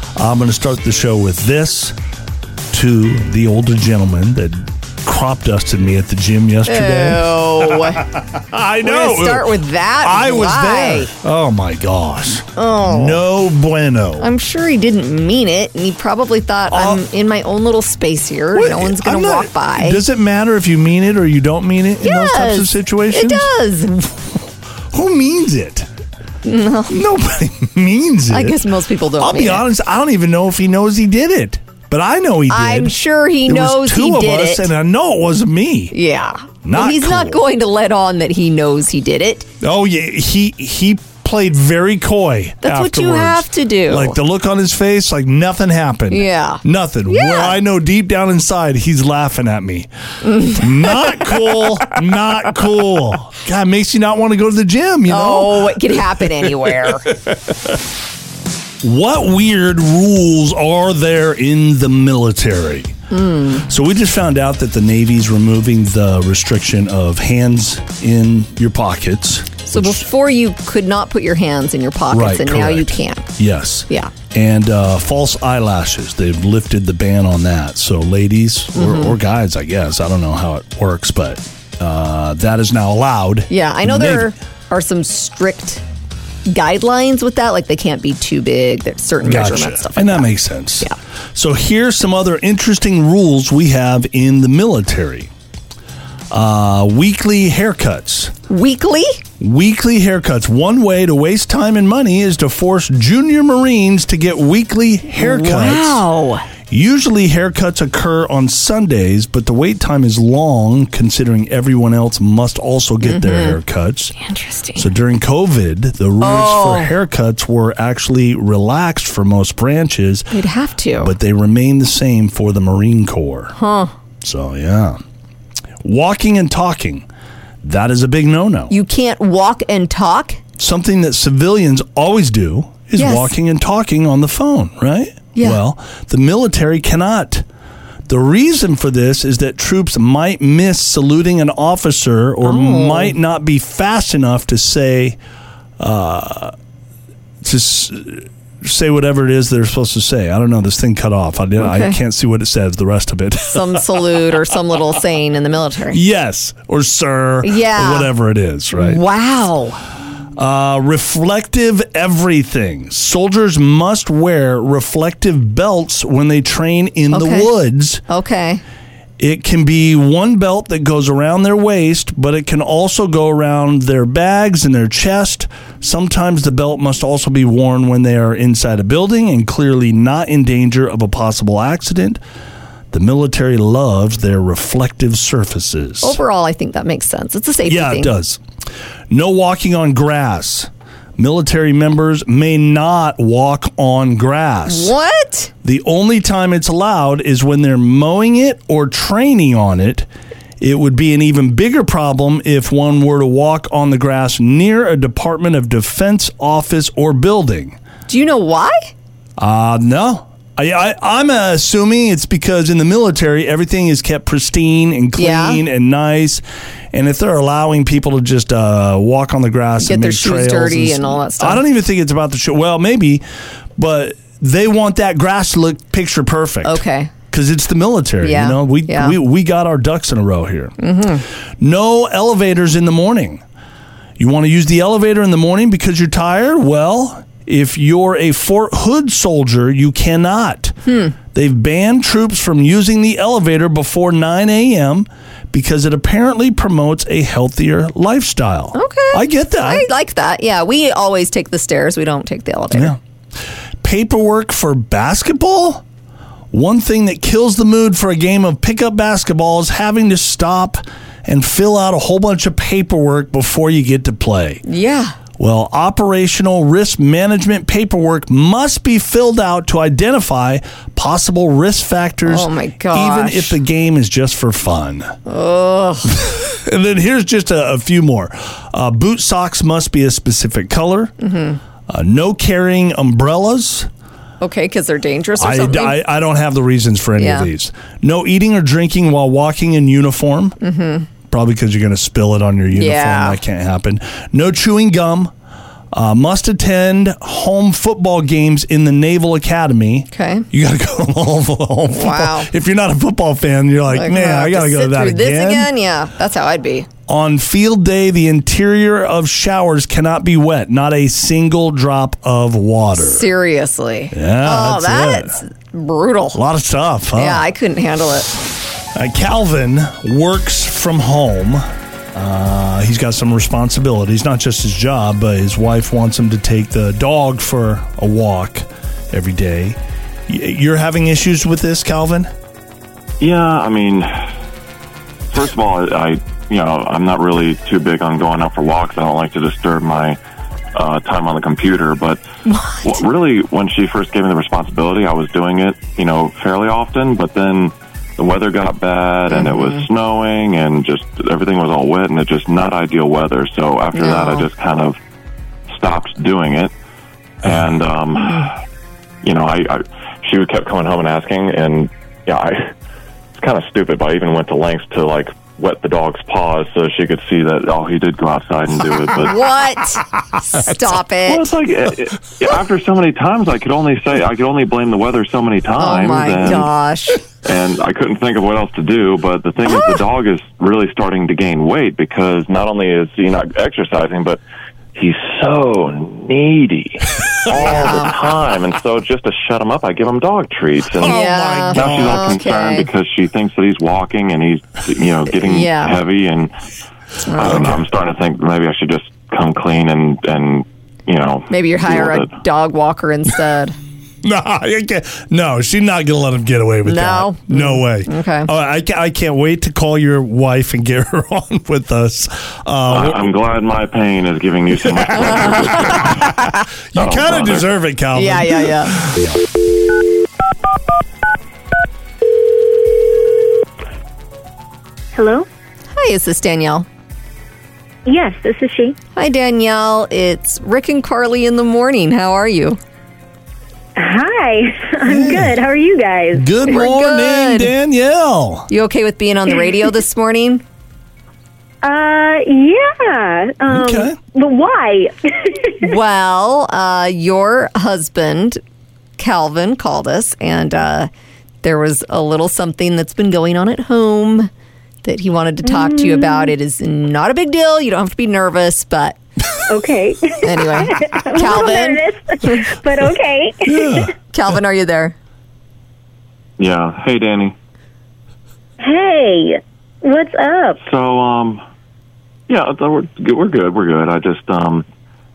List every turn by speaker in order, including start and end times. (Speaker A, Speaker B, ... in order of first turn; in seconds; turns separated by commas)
Speaker A: 0.1-1.9, Speaker A: 2.7-14.3, Speaker B: 6.7-8.1, Speaker B: 8.8-11.1, Speaker B: 12.5-13.2, Speaker B: 14.2-20.0, Speaker A: 16.7-17.0, Speaker A: 18.5-23.5, Speaker B: 22.0-24.2, Speaker A: 24.9-25.9, Speaker B: 26.4-27.0, Speaker A: 26.9-28.6, Speaker B: 28.3-29.7, Speaker A: 29.2-36.0, Speaker B: 32.5-34.7, Speaker B: 35.9-39.5, Speaker A: 36.6-37.4, Speaker A: 39.6-57.6, Speaker B: 42.6-44.2, Speaker B: 46.1-47.6, Speaker B: 50.2-51.3, Speaker B: 55.1-57.1, Speaker A: 58.8-63.0, Speaker B: 63.1-63.7, Speaker A: 63.6-70.1, Speaker B: 69.7-73.3, Speaker A: 72.1-84.3, Speaker B: 78.8-79.2, Speaker B: 83.5-85.8, Speaker B: 86.5-91.0, Speaker A: 89.2-95.3, Speaker A: 96.3-98.3, Speaker B: 98.5-99.2, Speaker A: 99.4-106.1, Speaker B: 105.2-106.5, Speaker A: 106.7-114.2, Speaker B: 113.0-113.6, Speaker B: 114.2-114.9, Speaker A: 114.8-120.3, Speaker B: 116.2-116.9, Speaker B: 120.3-121.1, Speaker A: 121.0-123.5, Speaker B: 123.5-123.9, Speaker A: 124.2-125.0, Speaker A: 125.8-127.0, Speaker A: 127.6-128.7, Speaker B: 128.7-130.4, Speaker A: 130.6-137.4, Speaker B: 133.0-133.3, Speaker A: 138.1-145.2, Speaker B: 142.4-143.2, Speaker A: 145.8-146.5, Speaker A: 147.4-154.2, Speaker B: 151.6-152.0, Speaker B: 153.5-156.0, Speaker A: 155.9-159.0, Speaker B: 157.4-158.1, Speaker B: 158.7-159.8, Speaker A: 160.3-168.0, Speaker B: 167.1-167.5, Speaker B: 168.1-168.6, Speaker A: 169.2-182.2, Speaker A: 182.9-186.2, Speaker B: 186.0-188.1, Speaker A: 187.6-188.4, Speaker A: 189.1-194.9, Speaker B: 194.7-195.5, Speaker A: 195.6-200.1, Speaker A: 200.6-207.8, Speaker B: 208.1-208.9, Speaker A: 209.4-223.2, Speaker B: 215.2-215.6, Speaker B: 219.8-221.6, Speaker A: 223.8-230.8, Speaker B: 226.6-227.1, Speaker B: 228.2-229.2, Speaker B: 230.8-231.2, Speaker A: 231.6-233.4, Speaker A: 234.2-240.8, Speaker B: 240.9-241.1, Speaker A: 241.3-249.9, Speaker B: 248.7-252.9, Speaker A: 252.7-253.0, Speaker A: 253.8-255.8, Speaker A: 256.5-264.6, Speaker B: 264.6-265.1, Speaker A: 265.4-275.1, Speaker B: 272.2-273.6, Speaker B: 275.2-276.2, Speaker A: 276.1-281.1, Speaker B: 281.2-281.6, Speaker A: 281.9-283.9, Speaker B: 284.4-286.0, Speaker A: 285.4-290.6, Speaker B: 287.2-287.5, Speaker B: 290.6-291.1, Speaker A: 291.3-295.3, Speaker B: 292.7-293.4, Speaker A: 295.9-305.7, Speaker B: 300.1-300.4, Speaker B: 301.9-302.5, Speaker B: 303.9-306.9, Speaker A: 307.1-313.3, Speaker B: 312.9-316.4, Speaker A: 314.1-315.4, Speaker A: 316.3-317.4, Speaker B: 317.1-318.4, Speaker A: 318.9-332.3, Speaker C: 333.2-334.3, Speaker C: 335.3-340.2, Speaker C: 340.7-342.2, Speaker B: 342.5-343.1, Speaker C: 342.8-355.0, Speaker B: 349.3-349.8, Speaker B: 353.9-354.5, Speaker C: 355.7-356.7, Speaker C: 357.4-358.6, Speaker C: 359.2-362.7, Speaker C: 363.3-369.4, Speaker B: 369.2-371.5, Speaker C: 371.2-376.7, Speaker B: 375.8-377.2, Speaker C: 377.4-384.4, Speaker B: 379.6-380.0, Speaker C: 384.9-396.5, Speaker B: 387.6-388.1, Speaker A: 391.0-392.2, Speaker B: 391.0-392.9, Speaker B: 395.3-396.0, Speaker B: 397.3-397.8, Speaker C: 397.4-402.3, Speaker A: 397.4-397.8, Speaker B: 401.5-403.8, Speaker A: 404.2-413.3, Speaker B: 406.8-408.5, Speaker C: 412.9-416.2, Speaker A: 415.4-416.2, Speaker B: 415.5-416.5, Speaker A: 416.9-419.4, Speaker C: 416.9-417.7, Speaker B: 418.1-419.1, Speaker D: 425.1-425.5, Speaker B: 425.9-426.9, Speaker D: 428.1-429.0, Speaker B: 429.1-432.8, Speaker D: 433.9-436.5, Speaker A: 435.0-435.6, Speaker A: 436.3-438.7, Speaker B: 436.6-437.7, Speaker B: 438.7-440.6, Speaker D: 441.8-445.9, Speaker A: 443.6-444.1, Speaker B: 445.8-448.6, Speaker B: 449.2-451.1, Speaker B: 451.6-454.5, Speaker B: 455.0-459.2, Speaker D: 455.6-456.5, Speaker D: 459.7-464.1, Speaker B: 460.4-462.6, Speaker A: 463.6-464.1, Speaker B: 464.3-465.1, Speaker C: 466.6-467.5, Speaker D: 468.8-470.8, Speaker C: 470.8-471.6, Speaker C: 472.5-474.8